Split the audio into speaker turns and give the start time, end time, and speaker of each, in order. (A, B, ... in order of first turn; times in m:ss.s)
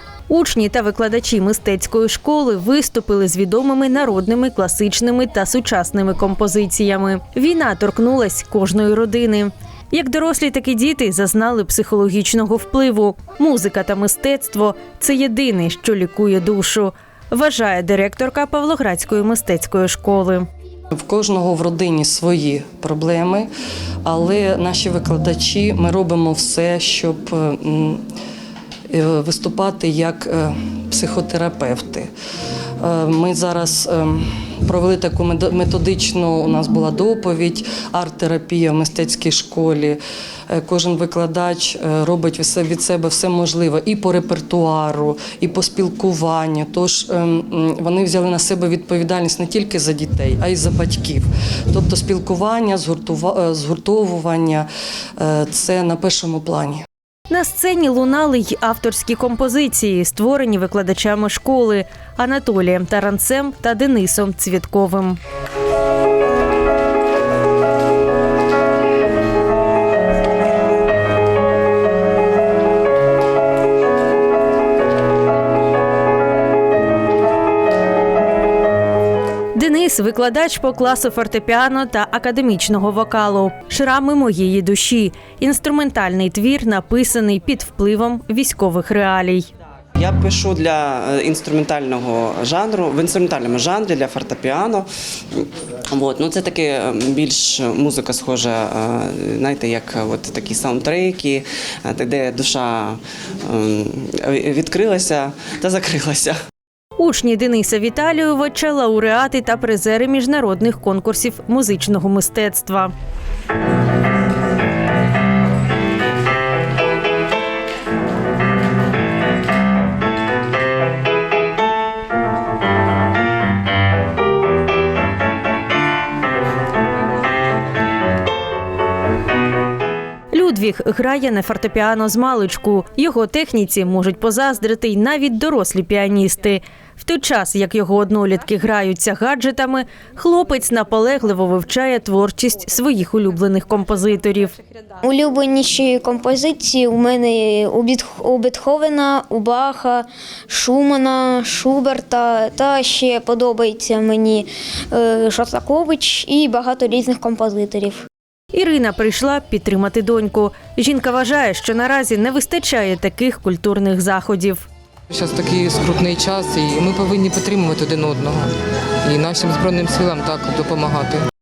0:00.3-0:20.5 A
0:20.9-0:23.5 B
0:24.0-0:28.0 B
0:28.9-0:32.1 B
0:32.8-0:56.8 B
0:57.3-1:05.2 A
1:19.5-1:29.5 A
1:30.0-1:46.3 C
1:47.0-1:52.9 A
2:10.3-2:24.5 A
2:25.0-2:38.0 D
2:38.5-2:44.6 A
2:45.1-2:48.5 E
2:49.0-2:51.2 E